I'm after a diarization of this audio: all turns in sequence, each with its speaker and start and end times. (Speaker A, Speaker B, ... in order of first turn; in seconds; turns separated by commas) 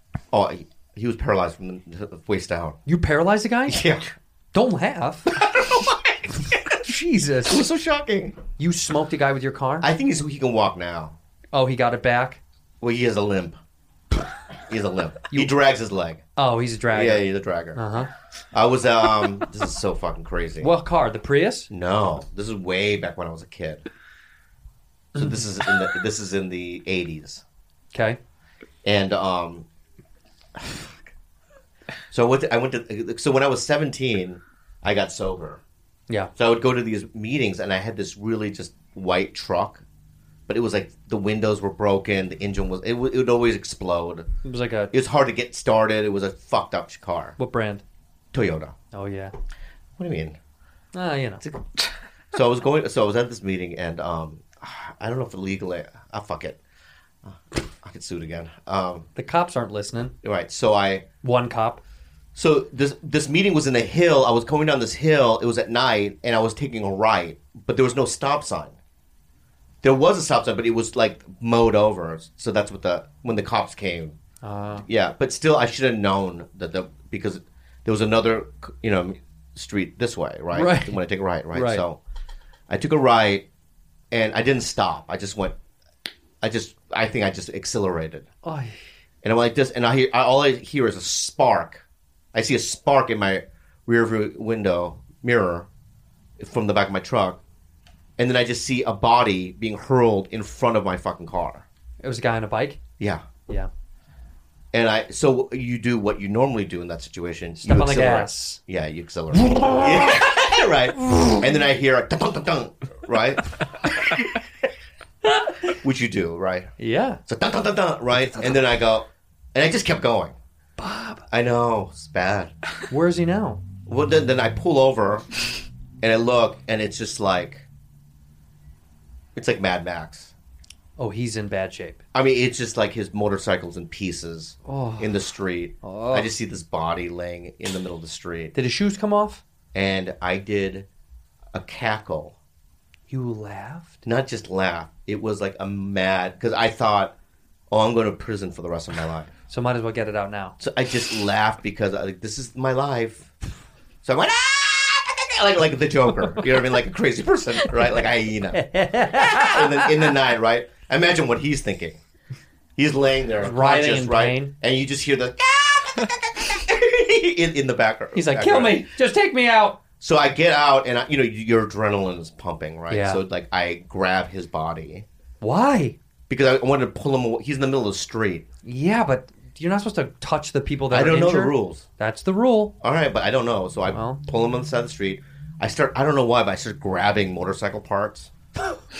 Speaker A: 0.3-2.8, Speaker B: 2.9-3.8, Speaker A: 3.7-4.1, Speaker B: 4.5-5.3, Speaker A: 5.3-6.8, Speaker B: 6.8-7.6, Speaker A: 7.5-8.4, Speaker B: 8.6-9.9, Speaker A: 9.8-11.2, Speaker B: 11.5-12.4, Speaker A: 12.8-13.6, Speaker A: 14.7-16.2, Speaker B: 16.4-18.1, Speaker A: 16.9-20.7, Speaker B: 20.6-21.7, Speaker A: 21.7-23.9, Speaker A: 25.1-27.4, Speaker B: 27.9-28.2, Speaker A: 28.8-29.6, Speaker A: 30.6-31.0, Speaker A: 32.1-35.6, Speaker A: 36.4-39.8, Speaker A: 40.5-44.3, Speaker B: 44.4-44.9, Speaker A: 44.9-47.4, Speaker B: 47.4-47.8, Speaker A: 48.3-48.8, Speaker B: 48.9-49.3, Speaker A: 50.0-50.4, Speaker B: 50.9-51.4, Speaker A: 52.3-56.6, Speaker A: 57.2-59.1, Speaker B: 59.1-60.1, Speaker A: 60.2-61.0, Speaker B: 61.2-61.8, Speaker A: 62.3-68.8, Speaker A: 69.8-74.2, Speaker B: 74.4-74.8, Speaker A: 74.8-82.0, Speaker B: 80.5-81.0, Speaker B: 81.5-81.8, Speaker A: 82.7-83.5, Speaker A: 84.1-85.6, Speaker A: 86.4-88.3, Speaker B: 88.4-88.8, Speaker A: 89.2-95.7, Speaker A: 96.4-97.4, Speaker A: 98.2-101.7, Speaker B: 102.0-102.8, Speaker A: 103.0-103.2, Speaker A: 104.7-114.3, Speaker B: 107.6-108.6, Speaker B: 109.4-110.3, Speaker B: 115.2-115.6, Speaker A: 115.7-116.7, Speaker B: 116.8-117.2, Speaker A: 117.2-120.4, Speaker B: 120.8-121.2, Speaker A: 121.3-122.5, Speaker B: 122.9-123.6, Speaker A: 123.8-125.3, Speaker A: 126.0-127.7, Speaker A: 129.3-130.3, Speaker B: 131.0-132.0, Speaker A: 132.1-138.5, Speaker B: 134.7-135.1, Speaker B: 135.8-136.3, Speaker B: 138.5-139.4, Speaker A: 139.7-140.9, Speaker A: 141.5-142.3, Speaker B: 143.1-144.0, Speaker A: 144.0-147.1, Speaker A: 147.7-149.3, Speaker B: 149.5-150.6, Speaker A: 150.6-153.3, Speaker A: 154.0-162.0, Speaker B: 158.5-160.1, Speaker A: 162.8-168.9, Speaker B: 163.4-164.5, Speaker B: 168.1-169.8, Speaker A: 170.0-175.1, Speaker B: 172.9-173.2, Speaker B: 175.4-175.9, Speaker A: 176.3-178.4, Speaker B: 178.6-182.7, Speaker A: 180.9-181.8, Speaker A: 182.8-188.3, Speaker B: 183.9-184.2